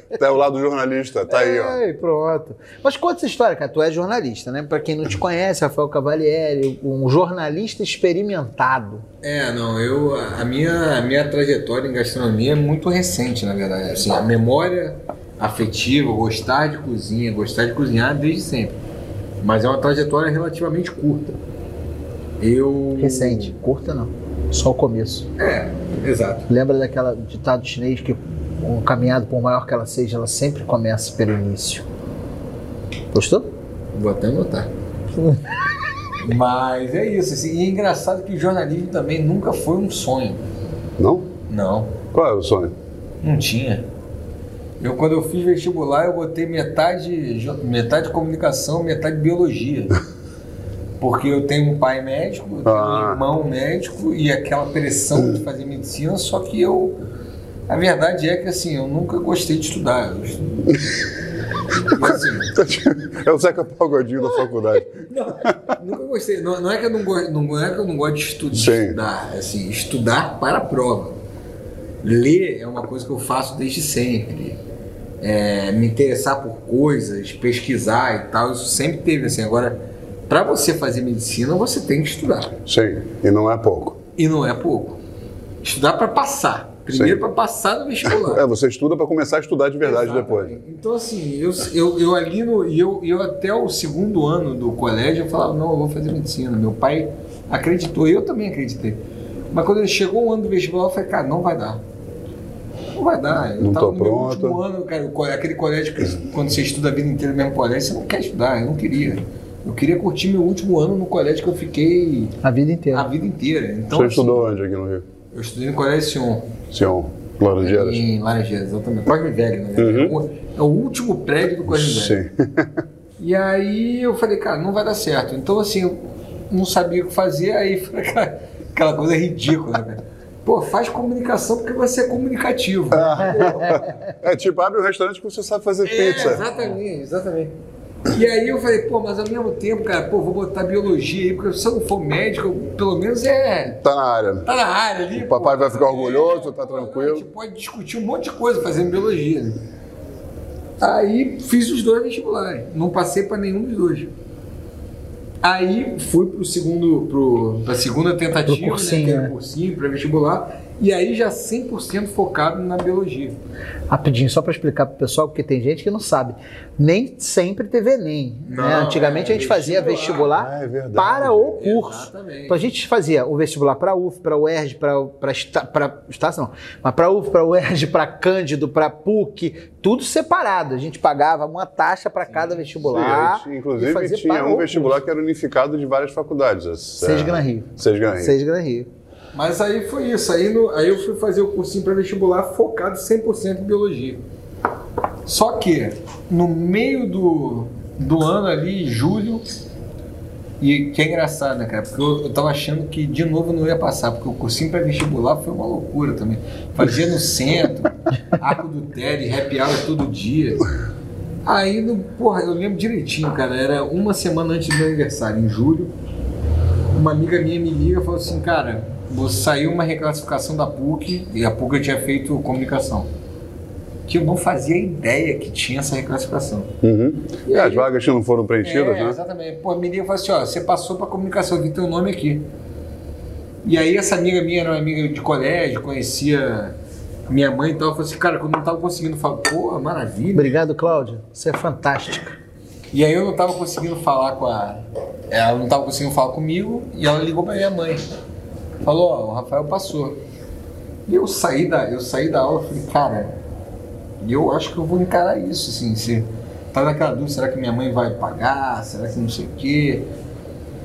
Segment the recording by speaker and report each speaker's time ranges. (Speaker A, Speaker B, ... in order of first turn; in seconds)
Speaker A: 0.1-1.8, 41.0-41.3, 42.1-42.7, 52.6-53.2, 62.0-65.0, 68.5-69.0, 82.7-84.0, 86.9-87.2, 88.0-90.5, 103.6-104.6, 113.9-115.1, 116.7-118.0, 119.8-120.2, 121.7-122.8, 132.9-136.5, 143.8-144.5, 145.1-147.3, 170.2-171.6, 182.8-188.4, 226.8-229.2
Speaker B: 1.3-9.0, 23.0-25.3, 26.5-31.9, 33.1-33.5, 112.4-113.1, 158.5-159.3, 163.9-185.0, 187.0-188.9, 240.3-242.4
Speaker C: 9.2-18.8, 19.4-21.4, 22.4-23.5, 25.4-26.5, 33.9-34.7, 36.2-40.4, 41.5-42.0, 43.2-43.9, 44.8-50.0, 51.0-57.0, 57.7-60.8, 61.8-62.6, 65.0-71.2, 72.0-74.6, 75.2-82.6, 84.2-85.0, 85.6-88.4, 89.8-101.8, 102.9-112.4, 112.9-114.5, 115.3-116.6, 117.6-122.2, 123.2-133.9, 135.8-137.6, 138.1-143.8, 144.4-149.6, 150.8-154.1, 155.4-163.4, 168.5-170.3, 171.6-172.7, 182.2-182.8, 189.3-194.2, 195.2-199.4, 200.6-210.7, 211.4-215.9, 216.9-223.1, 224.1-226.7, 227.4-227.9, 228.6-232.5, 233.6-236.8, 237.3-240.6, 242.9-248.0, 248.8-250.2, 251.1-253.3, 254.2-260.1